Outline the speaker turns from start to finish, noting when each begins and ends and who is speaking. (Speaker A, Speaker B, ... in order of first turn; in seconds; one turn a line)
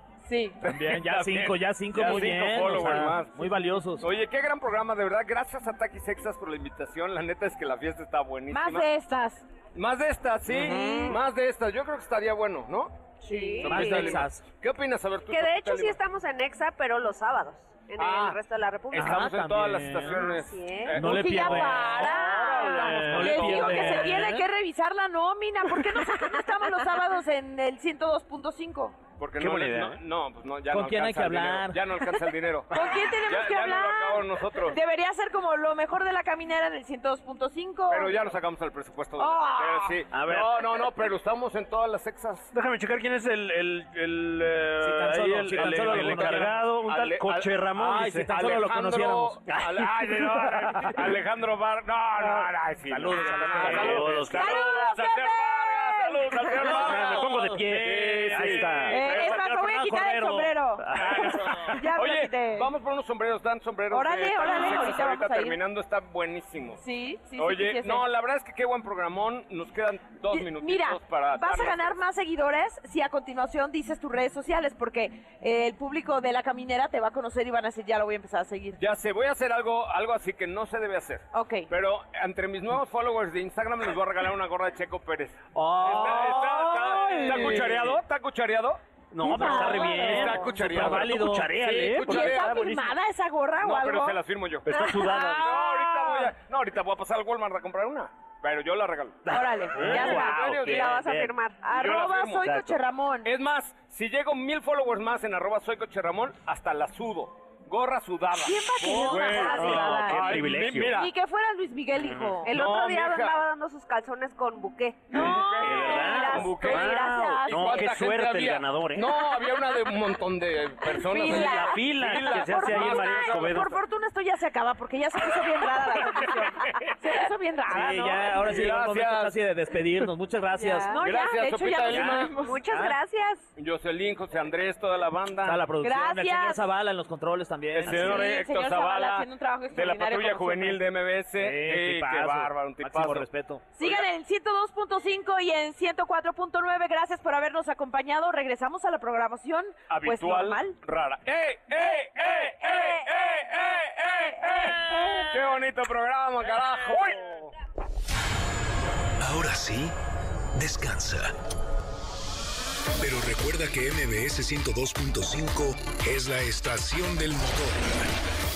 Speaker A: 0.2-0.6
Speaker B: 0.6-8.9
Speaker C: 0.6-4.1
Speaker D: 2.6-3.1
Speaker A: 8.5-9.4
Speaker B: 9.7-16.0
Speaker D: 10.6-10.9
Speaker A: 10.7-11.2
Speaker A: 13.2-14.1
Speaker E: 13.3-14.0
Speaker C: 13.6-14.4
Speaker E: 15.3-19.2
Speaker B: 18.0-18.4
Speaker B: 18.9-24.1
Speaker C: 18.9-20.3
Speaker E: 20.4-20.9
Speaker C: 20.9-22.1
Speaker A: 21.0-29.0
Speaker D: 21.9-23.9
Speaker C: 22.8-24.4
Speaker B: 29.2-34.8
Speaker D: 29.4-30.0
Speaker C: 30.7-31.8
Speaker A: 32.7-38.3
Speaker B: 37.9-42.5
Speaker A: 39.2-40.0
Speaker D: 40.1-40.8
Speaker D: 42.5-48.3
Speaker C: 44.8-46.5
Speaker B: 45.5-47.5
Speaker C: 47.7-49.4
Speaker B: 48.3-59.4
Speaker D: 49.5-51.0
Speaker C: 52.2-54.3
Speaker D: 53.1-54.7
Speaker A: 54.3-56.4
Speaker D: 56.5-61.8
Speaker C: 56.6-59.1
Speaker A: 58.9-60.9
Speaker C: 60.0-60.5
Speaker B: 60.9-66.8
Speaker A: 61.7-62.7
Speaker A: 63.9-65.6
Speaker D: 64.5-64.8
Speaker A: 66.8-68.1
Speaker B: 67.3-72.0
Speaker A: 70.3-78.8
Speaker B: 78.8-92.7
Speaker A: 81.3-81.7
Speaker D: 85.6-88.0
Speaker C: 85.6-88.0
Speaker A: 87.0-87.5
Speaker D: 89.1-92.9
Speaker A: 89.2-90.8
Speaker C: 89.4-91.5
Speaker A: 92.0-94.2
Speaker B: 93.6-101.0
Speaker D: 94.7-95.6
Speaker A: 95.1-96.3
Speaker D: 99.2-101.3
Speaker A: 99.3-100.4
Speaker E: 100.1-101.6
Speaker A: 101.6-103.3
Speaker B: 101.7-111.1
Speaker D: 102.4-102.7
Speaker A: 108.3-112.5
Speaker E: 108.9-109.5
Speaker D: 109.4-111.0
Speaker D: 111.9-112.4
Speaker E: 112.4-115.3
Speaker B: 112.5-113.4
Speaker A: 115.1-117.9
Speaker B: 115.1-123.5
Speaker D: 115.6-119.3
Speaker E: 115.9-117.3
Speaker A: 121.0-128.5
Speaker D: 121.2-123.8
Speaker C: 127.7-131.0
Speaker B: 128.3-129.3
Speaker A: 130.6-132.6
Speaker B: 131.0-132.4
Speaker C: 131.9-132.9
Speaker E: 132.4-133.5
Speaker B: 133.6-135.7
Speaker C: 135.4-138.4
Speaker A: 135.8-136.6
Speaker B: 137.7-143.3
Speaker A: 137.8-140.8
Speaker C: 141.3-143.6
Speaker A: 143.7-150.8
Speaker B: 143.8-144.1
Speaker B: 149.9-157.5
Speaker F: 159.2-160.0
Speaker F: 160.5-161.3
Speaker F: 162.9-168.1